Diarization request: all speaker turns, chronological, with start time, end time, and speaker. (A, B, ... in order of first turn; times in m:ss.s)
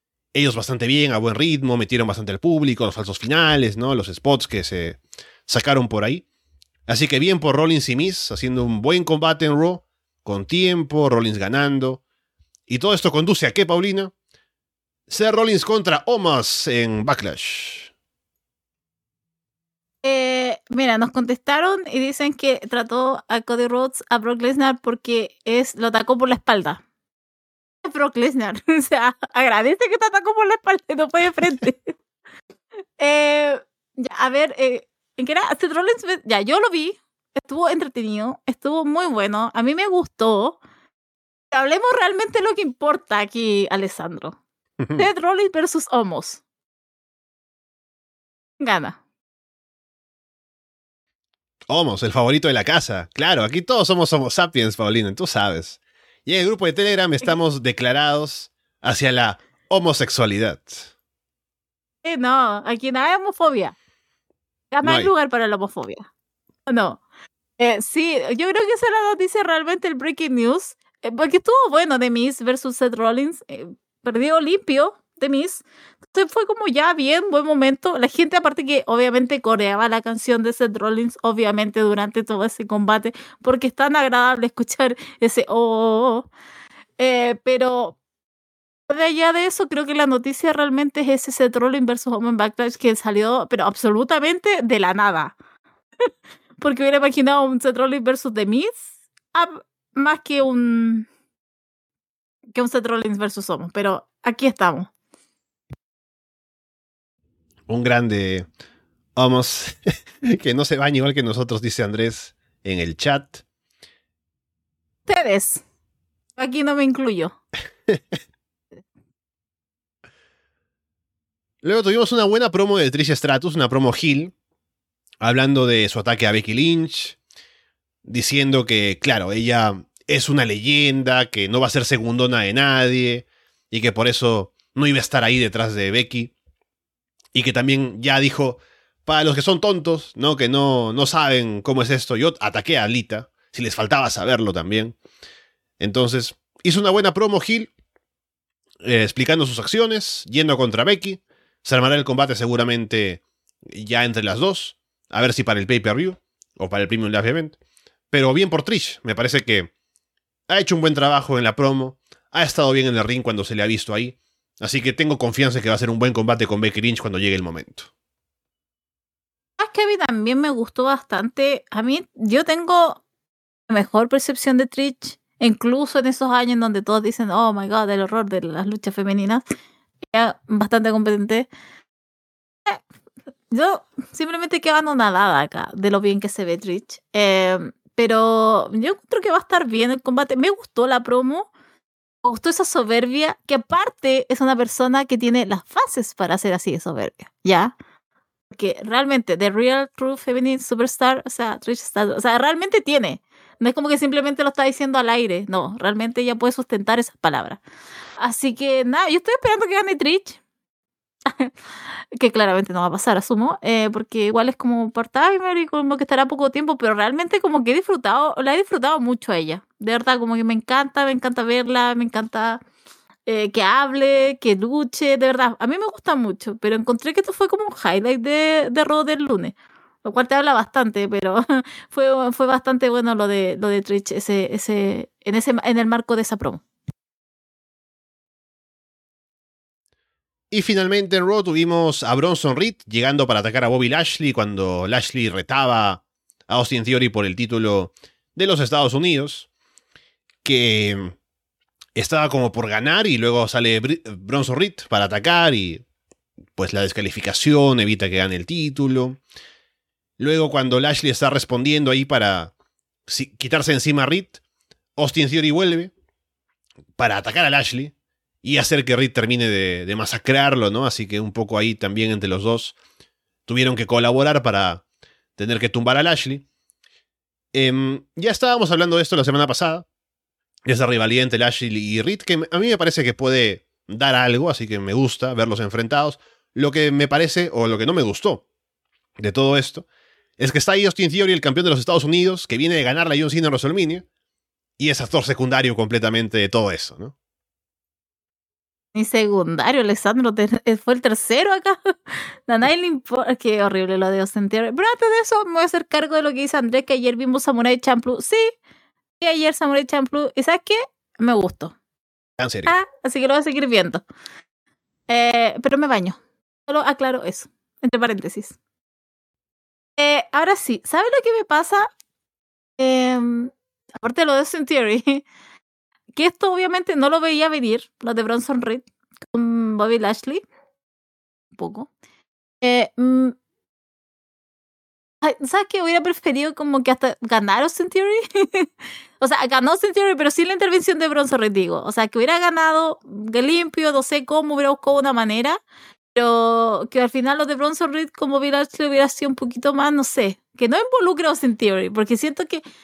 0:00.3-0:06.2 A
0:06.9-0:12.0 A
0:12.7-0:14.1 A
0:15.1-0:17.9 A
0:20.0-0:26.8 B
0:27.8-0:31.9 B
0:33.0-0:40.6 B
0:41.5-0:44.4 B
0:44.8-0:45.1 A
0:45.0-0:46.4 B
0:48.6-0:49.0 B
0:51.7-1:00.9 A
1:02.0-1:03.7 B
1:04.7-1:06.0 B
1:04.8-1:05.1 A
1:06.7-1:07.0 B
1:07.6-1:26.3 B
1:27.0-1:28.0 B
1:28.9-1:35.3 B
1:36.6-1:41.1 B
1:42.5-1:44.9 B
1:47.7-1:48.5 A
1:49.2-1:53.4 A
1:55.0-1:55.6 B
1:56.4-1:57.4 B
2:01.6-2:04.3 A
2:05.2-2:07.2 A
2:08.0-2:16.3 A
2:17.3-2:24.9 A
2:25.8-2:27.7 A
2:28.8-2:37.6 A
2:38.1-2:39.7 A
2:40.5-2:47.9 A
2:49.6-2:53.0 B
2:53.7-2:59.4 B
3:00.1-3:01.5 B
3:03.5-3:11.5 B
3:12.2-3:17.7 B
3:18.5-3:27.6 B
3:28.2-3:30.4 B
3:31.3-3:31.5 B
3:32.2-3:42.6 B
3:43.3-3:56.6 B
4:00.5-4:09.5 A
4:10.4-4:11.2 A
4:12.0-4:15.8 A
4:16.6-4:19.2 A
4:20.2-4:22.5 A
4:23.1-4:24.4 A
4:25.0-4:25.9 A
4:27.0-4:32.8 A
4:33.5-4:34.8 A
4:35.4-4:36.4 A
4:37.5-4:39.8 A
4:40.6-4:48.4 A
4:49.2-4:49.8 A
4:50.4-4:54.0 A
4:54.8-4:57.1 A
4:58.9-5:08.5 B
5:09.2-5:11.7 B
5:12.4-5:12.7 A
5:12.6-5:14.0 B
5:15.1-5:18.6 B
5:20.0-5:21.9 B
5:22.8-5:25.2 B
5:26.1-5:30.4 B
5:31.6-5:31.9 B
5:32.6-5:33.3 B
5:35.2-5:38.7 B
5:39.2-5:45.6 B
5:46.1-5:52.6 B